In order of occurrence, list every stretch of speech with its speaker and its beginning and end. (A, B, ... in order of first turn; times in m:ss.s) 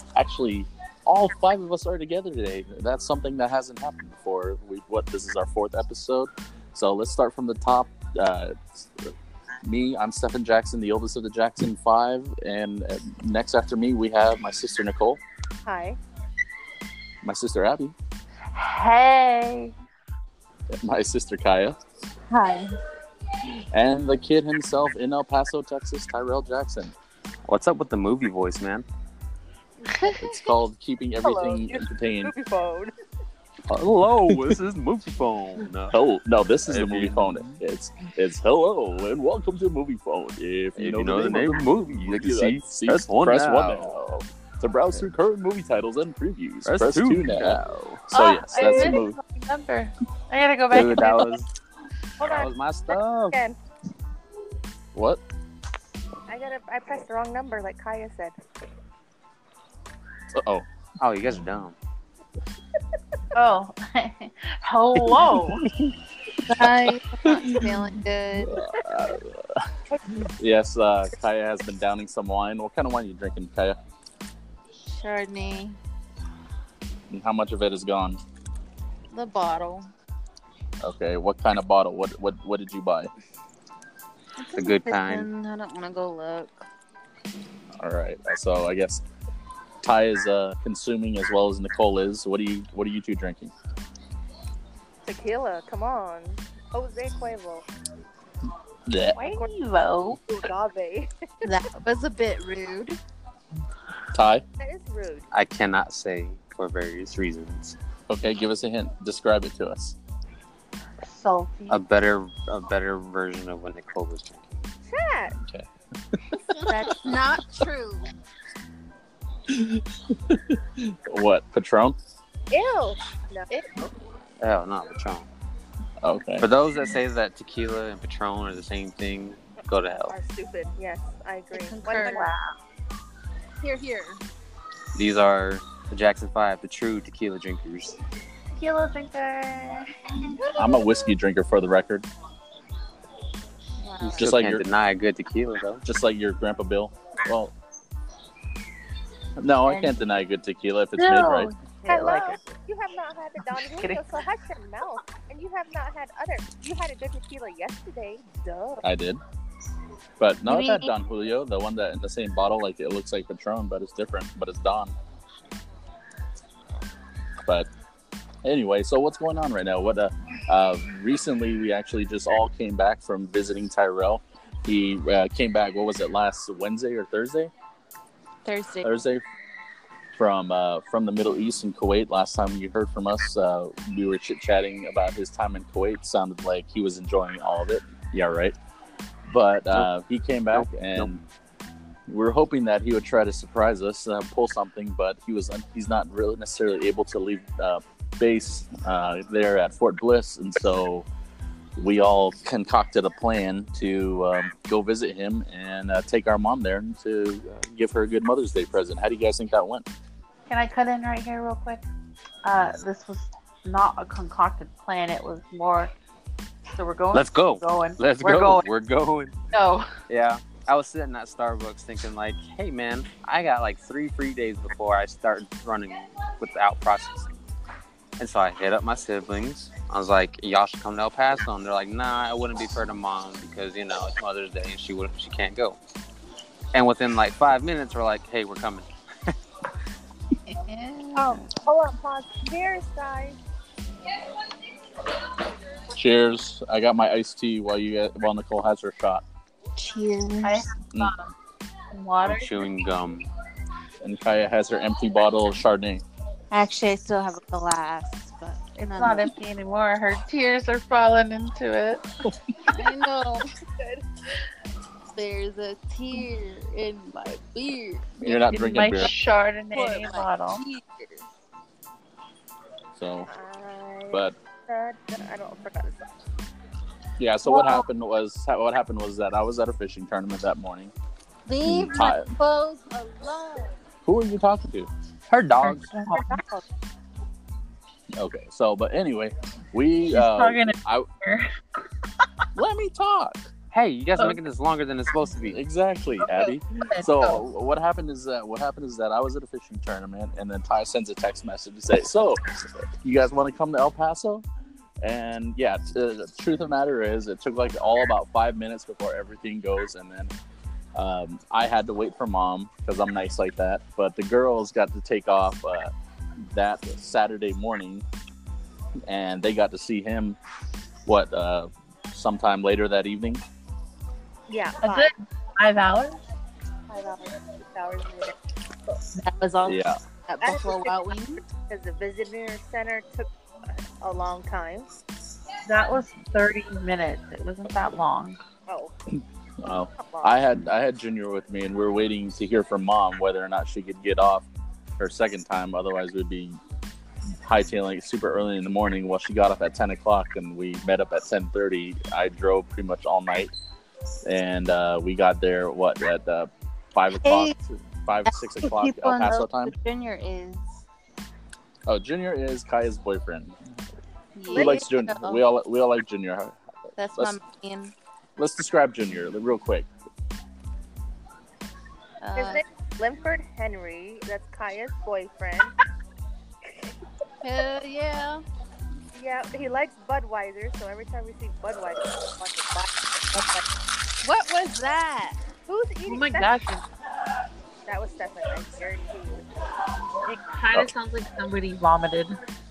0:00.1-0:15.2 A
0:15.6-0:16.0 B
0:17.2-0:17.9 A
0:18.5-0:19.7 C
0:20.7-0:21.8 A
0:22.3-0:22.8 D
0:23.7-0:26.9 A
0:27.4-0:28.8 E
0:30.2-0:32.3 A
0:31.2-0:32.9 B
0:33.7-0:36.0 E
0:34.3-0:34.6 A
0:35.9-0:49.2 A
0:36.6-0:37.6 E
0:40.8-0:44.0 E
0:46.6-0:48.0 E
0:48.1-0:51.3 C
0:48.6-0:48.9 B
0:50.7-0:51.5 E
0:50.8-0:51.2 B
0:52.2-0:53.6 B
0:52.2-0:53.4 E
0:54.9-0:55.2 A
0:56.3-0:58.4 B
1:00.3-1:00.6 A
1:01.0-1:01.7 E
1:03.3-1:05.6 C
1:05.0-1:05.9 A
1:06.4-1:08.6 D
1:06.6-1:07.8 A
1:08.4-1:09.7 A
1:10.2-1:13.8 A
1:14.8-1:15.8 D
1:17.1-1:18.2 A
1:19.1-1:19.9 D
1:20.8-1:23.1 A
1:24.4-1:26.6 D
1:24.5-1:25.3 E
1:27.8-1:29.0 A
1:29.8-1:33.5 A
1:35.0-1:37.6 B
1:38.8-1:39.2 A
1:39.1-1:40.2 C
1:39.2-1:39.5 B
1:40.2-1:41.5 B
1:41.4-1:43.0 D
1:44.1-1:44.4 A
1:44.6-1:45.3 B
1:45.3-1:47.8 E
1:48.1-1:50.0 A
1:51.0-1:51.8 C
1:51.7-1:54.6 E
1:54.9-1:55.4 B
1:55.4-1:57.0 A
1:56.6-1:58.1 D
1:59.5-2:02.0 A
2:02.5-2:03.6 B
2:04.4-2:05.3 E
2:06.0-2:06.5 A
2:06.4-2:10.1 E
2:10.1-2:12.3 B
2:11.5-2:12.3 D
2:12.0-2:12.5 C
2:13.6-2:14.2 D
2:14.9-2:18.0 E
2:18.5-2:20.0 C
2:20.6-2:22.1 A
2:23.8-2:24.3 D
2:24.0-2:25.8 E
2:24.2-2:24.6 A
2:25.8-2:27.5 A
2:29.4-2:31.5 A
2:31.0-2:32.4 C
2:31.9-2:38.8 B
2:33.4-2:34.2 C
2:38.8-2:39.2 A
2:40.2-2:44.9 A
2:40.5-2:40.9 D
2:47.4-2:47.7 A
2:48.4-2:57.5 A
2:58.4-2:59.0 D
2:58.8-2:59.2 A
3:00.1-3:08.6 A
3:09.3-3:11.2 A
3:10.5-3:11.1 E
3:12.1-3:21.1 A
3:21.8-3:29.9 A
3:30.5-3:31.8 C
3:32.4-3:35.9 C
3:36.7-3:38.6 C
3:37.1-3:39.3 E
3:39.5-3:39.9 C
3:40.1-3:47.3 E
3:48.2-3:55.8 E
3:56.7-3:59.3 E
4:00.4-4:01.5 D
4:01.1-4:03.4 B
4:05.9-4:09.2 A
4:09.8-4:10.7 D
4:10.4-4:11.3 C
4:11.9-4:12.6 C
4:12.2-4:13.3 E
4:14.0-4:16.0 A
4:16.5-4:19.4 D
4:18.8-4:22.0 C
4:22.7-4:23.5 D
4:23.8-4:24.0 B
4:25.1-4:28.3 D
4:28.2-4:29.1 A
4:28.2-4:30.6 C
4:29.7-4:31.2 D
4:32.9-4:33.3 A
4:33.3-4:36.1 B
4:37.2-4:40.9 A
4:41.4-4:43.8 D
4:41.6-4:42.3 A
4:44.0-4:44.9 A
4:45.3-4:46.2 E
4:45.6-4:46.4 C
4:46.1-4:46.6 B
4:48.2-4:51.1 A
4:50.1-4:51.5 C
4:52.5-4:53.5 A
4:53.7-4:55.6 E
4:55.4-5:02.4 A
4:56.2-4:57.4 C
5:03.0-5:04.4 A
5:05.0-5:10.3 A
5:10.9-5:15.9 A
5:16.4-5:18.0 A
5:19.0-5:20.4 A
5:21.0-5:23.4 A
5:24.5-5:25.1 B
5:24.8-5:26.2 C
5:26.9-5:28.3 B
5:29.2-5:31.4 D
5:29.6-5:30.0 A
5:30.4-5:31.0 B
5:31.6-5:34.9 B
5:35.6-5:38.4 C
5:38.7-5:38.9 B
5:39.6-5:44.5 A
5:39.9-5:40.4 B
5:45.0-5:46.6 A
5:47.4-5:53.5 A
5:54.2-5:59.7 A
5:57.1-5:57.5 D
5:58.3-6:00.8 D
6:01.9-6:03.6 A
6:04.3-6:05.4 D
6:04.5-6:04.8 B
6:04.5-6:06.6 A
6:07.0-6:07.9 D
6:08.4-6:09.9 A
6:12.2-6:12.6 D
6:12.4-6:15.7 B
6:16.7-6:16.9 B
6:17.4-6:18.4 D
6:19.1-6:23.6 B
6:24.2-6:25.4 D
6:25.7-6:26.6 B
6:26.0-6:26.9 C
6:27.8-6:29.4 B
6:30.2-6:32.4 C